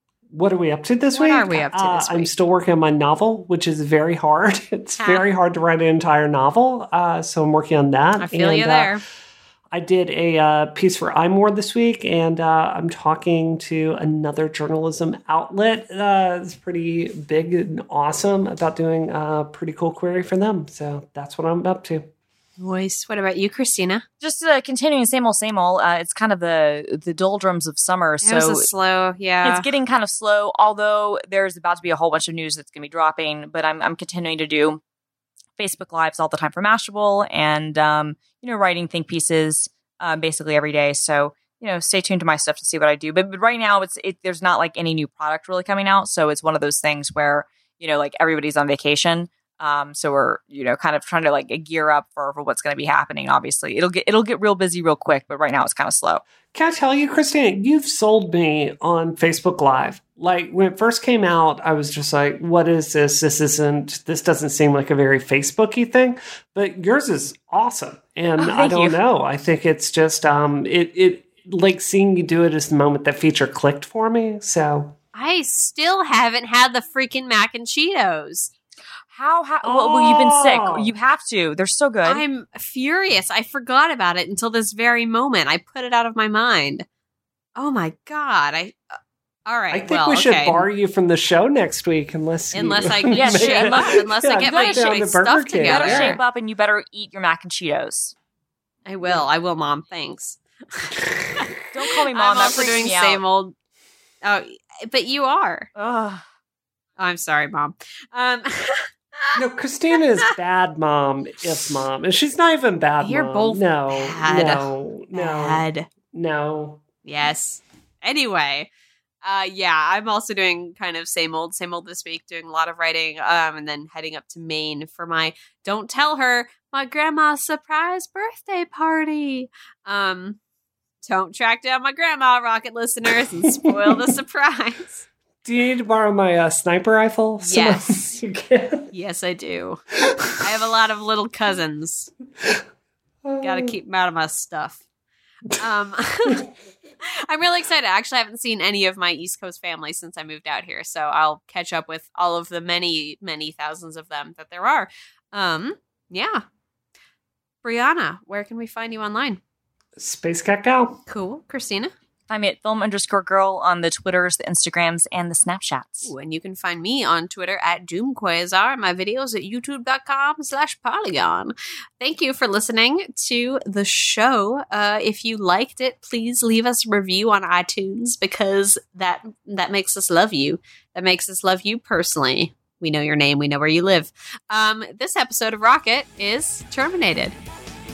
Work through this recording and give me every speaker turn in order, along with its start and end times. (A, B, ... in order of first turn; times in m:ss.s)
0:00.3-0:08.9 A
0:01.1-0:02.3 B
0:08.2-0:09.0 B
0:09.7-0:22.0 A
0:22.6-0:24.0 B
0:24.2-0:28.7 C
0:28.2-0:29.6 B
0:29.4-0:34.8 C
0:35.6-0:56.2 C
0:56.5-1:14.9 A
1:08.4-1:08.9 C
1:15.1-1:18.5 B
1:19.1-1:22.2 C
1:19.6-1:20.9 A
1:22.0-1:26.9 B
1:27.6-1:28.8 B
1:29.5-1:30.7 B
1:29.7-1:36.2 A
1:32.5-1:36.2 B
1:33.1-1:34.9 C
1:35.6-1:38.1 C
1:38.9-1:41.5 B
1:41.0-1:41.5 A
1:41.7-1:43.2 C
1:42.1-1:43.5 B
1:44.2-1:45.7 B
1:45.8-1:46.2 C
1:47.0-1:49.4 B
1:49.3-1:56.8 A
1:53.0-1:55.9 B
1:57.0-1:58.7 B
1:59.2-2:10.4 B
2:11.0-2:15.0 B
2:13.6-2:14.1 A
2:15.4-2:18.9 A
2:17.4-2:18.2 B
2:18.9-2:19.8 B
2:20.0-2:20.4 A
2:20.4-2:22.1 B
2:23.2-2:23.7 A
2:23.4-2:24.8 B
2:25.6-2:26.4 B
2:27.0-2:36.4 B
2:37.6-2:39.4 B
2:40.0-2:41.0 A
2:41.1-2:41.9 B
2:42.3-2:46.1 C
2:46.0-3:07.4 B